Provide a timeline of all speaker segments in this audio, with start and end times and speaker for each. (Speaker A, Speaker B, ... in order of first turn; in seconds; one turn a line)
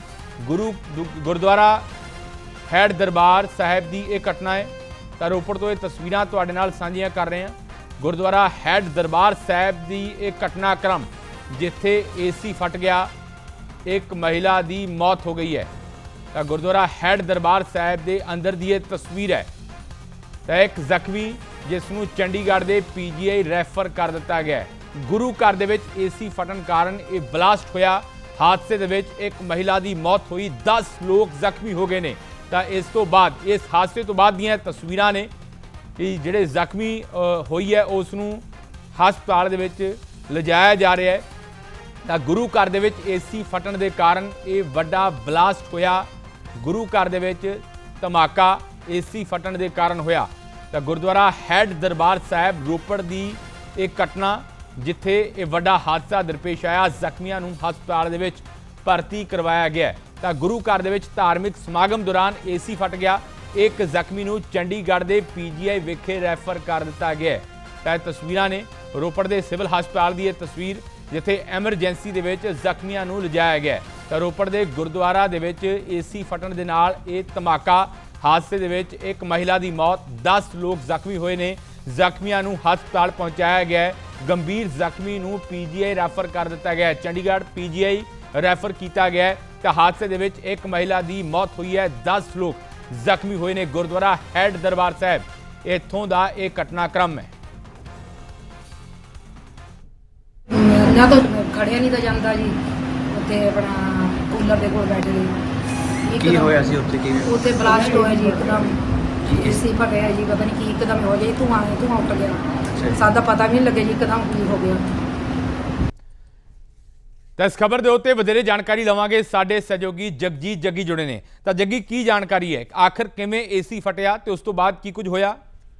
Speaker A: 0.4-1.9
Speaker A: 2.7-13.1
Speaker A: 13.8-15.7
Speaker A: 16.3-19.5
Speaker A: 20.5-35.3
Speaker A: 36.0-41.2
Speaker A: 42.0-97.3
Speaker B: 100.5-102.6
Speaker B: 103.1-105.4
Speaker B: 106.0-106.7
Speaker C: 106.1-107.8
Speaker B: 107.2-114.9
Speaker C: 109.3-109.6
Speaker C: 112.7-113.0
Speaker A: 117.4-125.4